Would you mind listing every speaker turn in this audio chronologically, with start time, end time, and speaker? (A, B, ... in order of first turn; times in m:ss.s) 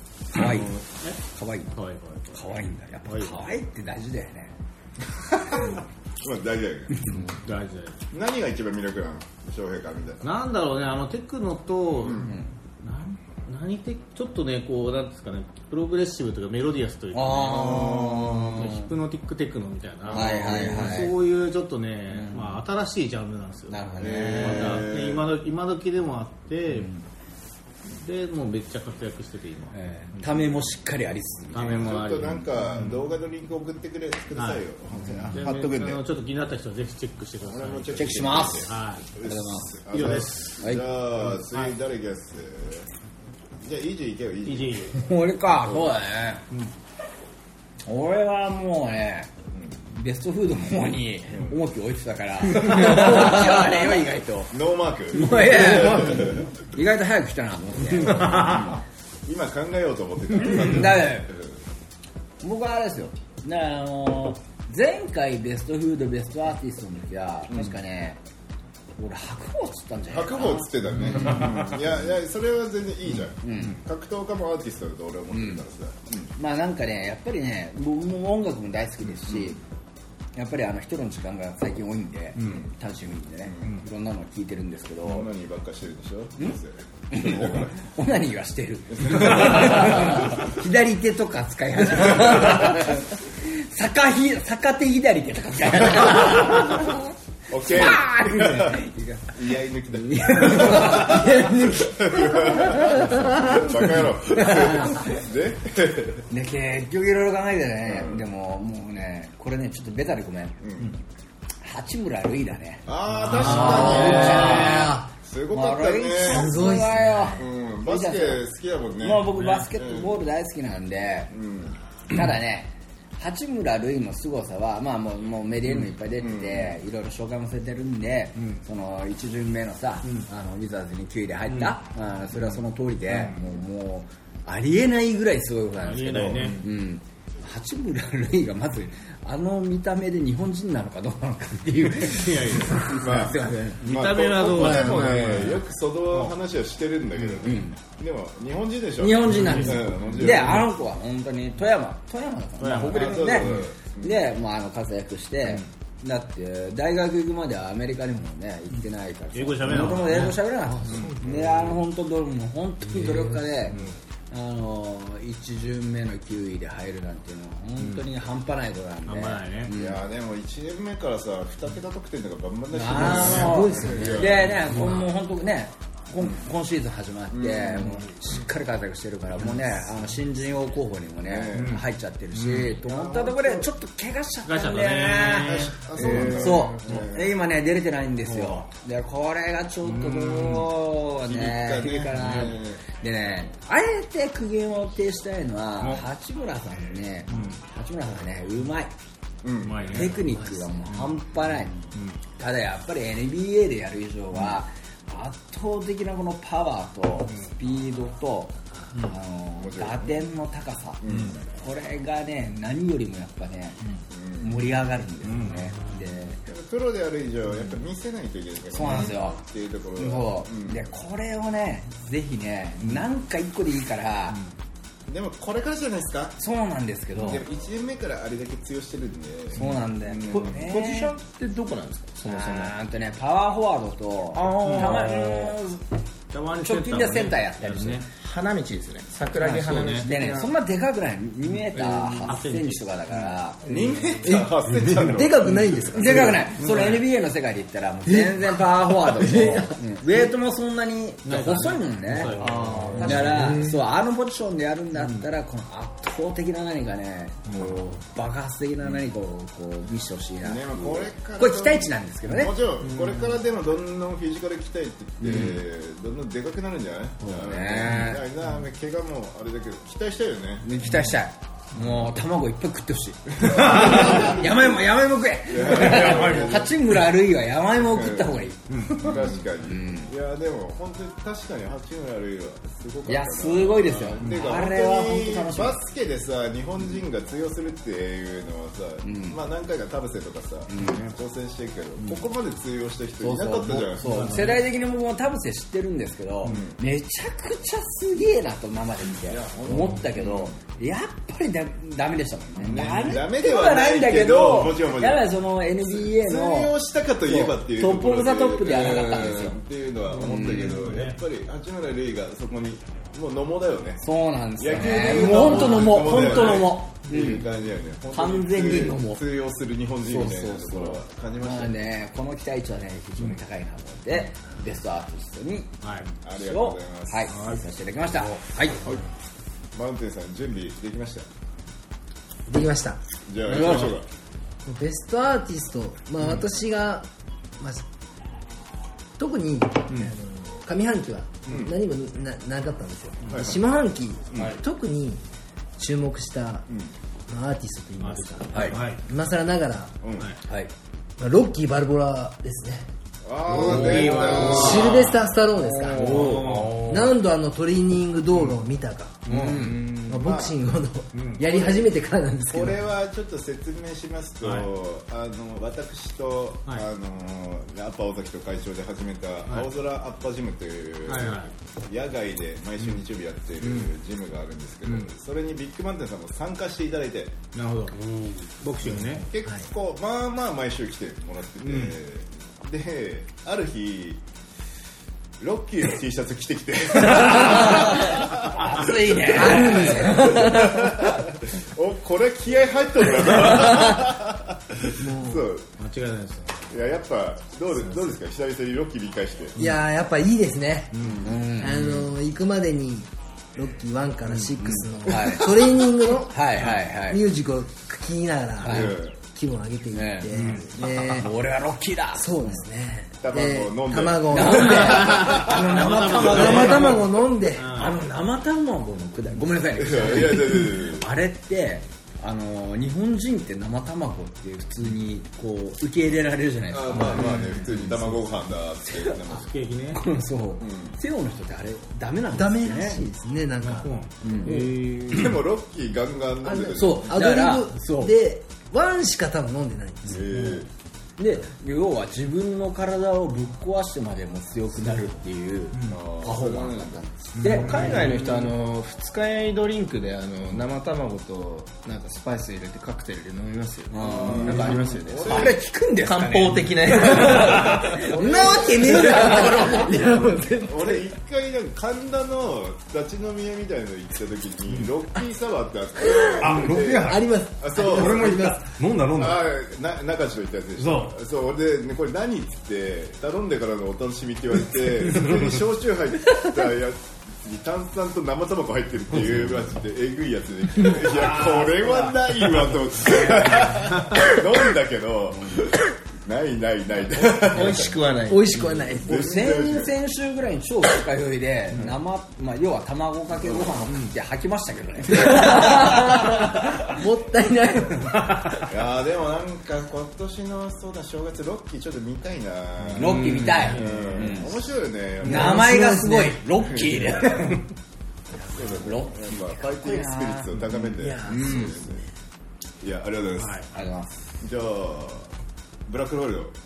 0:00.3-0:01.7 A
0:00.3-0:01.2 B
0:01.7-0:02.5 B
0:02.3-0:04.5 A
0:03.0-0:03.5 B
0:05.3-0:07.0 C
0:07.1-0:08.0 B
0:08.1-0:10.3 C
0:10.2-0:26.9 B
0:12.0-0:12.3 C
0:12.1-0:12.5 A
0:17.1-0:18.9 A
0:17.4-0:18.6 C
0:20.1-0:21.0 C
0:20.1-0:21.1 A
0:22.1-0:22.6 A
0:23.7-0:24.9 A
0:24.0-0:25.3 C
0:26.7-0:27.0 A
0:28.0-0:30.6 B
0:29.7-0:32.0 A
0:31.5-0:33.0 B
0:31.5-0:36.0 C
0:34.3-0:34.6 B
0:35.3-0:39.0 B
0:37.4-0:42.9 C
0:38.0-0:40.8 A
0:39.9-0:40.6 B
0:41.4-0:41.7 B
0:43.6-0:44.9 C
0:44.4-0:45.0 B
0:44.9-0:46.4 A
0:47.8-0:49.3 A
0:49.9-0:54.5 A
0:54.5-0:56.5 C
0:55.1-0:58.8 A
0:58.0-0:58.7 C
0:59.2-1:01.6 C
1:00.4-1:01.3 A
1:02.4-1:08.2 A
1:07.5-1:07.8 C
1:09.0-1:11.5 A
1:10.1-1:16.3 C
1:13.4-1:13.8 A
1:15.3-1:15.6 A
1:16.4-1:19.6 A
1:19.0-1:19.6 C
1:20.3-1:25.3 A
1:22.4-1:22.7 C
1:23.4-1:23.8 C
1:25.0-1:27.7 C
1:27.1-1:39.3 A
1:29.0-1:30.5 C
1:32.1-1:32.8 C
1:37.5-1:46.2 C
1:39.9-1:45.1 A
1:46.3-1:50.6 A
1:47.8-1:48.2 C
1:50.6-1:50.9 C
1:51.6-1:58.4 A
1:52.8-1:56.6 C
1:53.1-1:54.8 B
1:53.4-1:55.1 D
1:56.2-1:57.4 D
1:57.3-2:00.2 C
1:59.0-2:01.3 A
1:59.3-1:59.7 B
2:01.3-2:01.8 C
2:02.1-2:23.8 A
2:05.6-2:05.9 B
2:06.2-2:06.8 C
2:11.5-2:11.8 B
2:12.3-2:13.4 B
2:15.8-2:16.6 B
2:16.2-2:16.6 C
2:22.0-2:22.9 B
2:22.9-2:30.7 C
2:23.8-2:26.3 B
2:24.6-2:25.1 A
2:27.4-2:27.8 A
2:29.0-2:50.0 A
2:29.3-2:30.6 B
2:32.6-2:33.7 B
2:32.9-2:34.2 C
2:39.3-2:41.8 B
2:40.9-2:41.3 C
2:42.9-2:43.9 B
2:47.8-2:48.0 B
2:49.0-2:49.7 B
2:49.8-2:54.8 C
2:52.7-3:18.9 A
2:52.9-2:54.4 D
2:53.2-2:53.4 B
2:54.5-2:55.0 B
2:57.3-2:58.1 C
3:01.2-3:01.8 C
3:01.5-3:02.8 B
3:02.8-3:03.7 C
3:04.4-3:07.1 B
3:05.4-3:07.3 C
3:08.2-3:08.7 B
3:09.8-3:10.7 B
3:11.2-3:12.8 C
3:12.2-3:12.5 B
3:17.3-3:17.6 B
3:19.4-3:20.1 C
3:19.6-3:20.3 B
3:19.8-3:21.7 A
3:20.9-3:21.2 B
3:21.9-3:22.2 B
3:22.3-3:33.8 A
3:29.6-3:30.2 C
3:31.0-3:31.4 C
3:34.1-3:34.7 C
3:34.4-3:36.4 A
3:35.2-3:35.8 B
3:36.4-3:40.8 C
3:38.7-3:39.4 A
3:40.0-3:44.4 A
3:45.1-3:46.4 C
3:46.4-3:47.4 A
3:47.1-3:50.6 C
3:49.5-3:51.1 A
3:50.3-3:52.7 E
3:52.3-3:55.8 A
3:54.3-3:55.5 E
3:54.6-3:55.0 B
3:56.3-3:58.1 B
3:56.6-3:58.0 A
3:58.1-4:00.5 E
3:59.4-4:04.0 A
3:59.6-4:00.1 B
4:01.7-4:03.3 B
4:03.6-4:06.2 C
4:04.2-4:06.6 D
4:04.7-4:05.2 F
4:05.9-4:22.5 A
4:06.6-4:07.0 B
4:08.1-4:08.4 D
4:08.9-4:09.8 D
4:11.2-4:13.7 B
4:15.0-4:15.2 B
4:20.4-4:30.7 C
4:25.2-4:25.6 A
4:27.2-4:28.2 A
4:30.6-4:40.1 A
4:33.4-4:34.7 C
4:35.4-4:36.8 C
4:37.8-4:38.4 C
4:38.7-4:39.2 B
4:39.0-4:54.2 C
4:43.1-4:45.8 A
4:49.0-4:49.4 A
4:50.7-4:51.1 A
4:53.2-5:06.7 A
4:54.0-4:54.6 B
4:56.4-4:56.8 C
4:59.2-5:00.6 C
5:02.6-5:21.8 C
5:07.2-5:09.6 A
5:10.1-5:11.2 B
5:10.2-5:10.8 A
5:14.0-5:17.4 A
5:15.4-5:16.6 B
5:18.1-5:19.2 A
5:20.0-5:25.7 A
5:25.8-5:26.1 B
5:26.2-5:27.3 C
5:26.4-5:28.9 A
5:27.3-5:27.6 B
5:29.7-5:31.3 C
5:32.5-5:33.0 D
5:33.3-5:34.1 C
5:33.5-5:33.9 A
5:34.6-5:37.1 D
5:39.2-5:45.2 D
5:41.5-5:41.7 C
5:43.3-5:43.6 C
5:44.3-5:44.6 C
5:45.8-5:46.7 D
5:47.3-5:50.0 D
5:48.0-5:49.0 B
5:48.5-5:48.9 A
5:50.0-5:50.3 C
5:50.4-5:50.7 A
5:51.2-5:52.8 D
5:53.2-5:55.1 C
5:53.5-5:55.1 B
5:53.5-6:02.8 D
5:53.7-5:54.0 A
5:55.8-5:56.9 B
5:56.3-5:57.2 F
5:59.2-5:59.9 B
5:59.3-5:59.9 A
6:00.1-6:00.6 C
6:01.1-6:01.4 B
6:01.4-6:17.4 C
6:04.4-6:04.7 B
6:11.0-6:11.5 B
6:13.6-6:13.9 B
6:17.5-6:18.0 B
6:17.9-6:18.5 F
6:18.6-6:19.2 B
6:18.8-6:24.2 C
6:21.6-6:21.9 B
6:25.4-6:35.6 C
6:27.1-6:30.9 A
6:29.4-6:30.8 D
6:35.0-6:35.5 D
6:35.8-6:36.6 B
6:36.7-6:39.6 C
6:39.6-6:51.3 D
6:40.9-6:41.2 B
6:41.0-6:41.3 C
6:41.2-6:42.1 A
6:44.3-6:44.8 B
6:44.6-6:47.2 A
6:48.6-6:48.9 A
6:48.6-6:49.1 C
6:49.9-6:52.6 A
6:50.3-6:50.7 B
6:52.1-6:57.8 D
6:53.2-6:55.7 C
6:54.3-6:57.0 A
6:55.1-6:58.0 B
6:57.7-7:07.6 A
6:59.8-7:01.1 C
7:06.7-7:09.5 C
7:07.0-7:07.5 B
7:09.3-7:10.0 B
7:09.9-7:13.0 A
7:10.6-7:11.0 C
7:12.3-7:13.9 D
7:13.6-7:15.4 B
7:14.2-7:14.7 A
7:14.4-7:14.7 D
7:15.1-7:17.2 C
7:16.4-7:20.3 D
7:16.8-7:18.2 A
7:20.0-7:20.7 C
7:20.3-7:20.6 B
7:21.2-7:28.0 A
7:25.9-7:27.1 C
7:27.4-7:28.3 B
7:27.4-7:38.1 E
7:33.9-7:40.1 A
7:34.0-7:35.6 C
7:38.0-7:39.0 C
7:38.0-7:41.1 D
7:38.8-7:39.4 E
7:40.5-7:48.5 C
7:46.0-7:48.6 D
7:46.4-7:49.4 F
7:49.1-8:07.9 C
7:50.8-7:51.1 F
8:01.2-8:02.1 A
8:03.2-8:03.7 A
8:07.3-8:08.8 E
8:08.3-8:09.3 D
8:09.0-8:09.9 C
8:09.0-8:16.7 A
8:13.4-8:13.9 C
8:15.1-8:18.2 D
8:18.7-8:25.7 C
8:22.9-8:24.6 A
8:23.1-8:24.3 B
8:23.3-8:23.6 F
8:25.2-8:27.6 A
8:25.2-8:26.4 D
8:26.6-8:27.5 C
8:28.4-8:28.7 D
8:28.5-8:32.0 C
8:28.7-8:30.6 A
8:31.0-8:31.8 D
8:31.2-8:31.7 A
8:32.8-8:33.6 C
8:33.4-8:33.7 B
8:33.7-8:34.1 A
8:34.4-8:35.3 C
8:35.9-8:36.5 C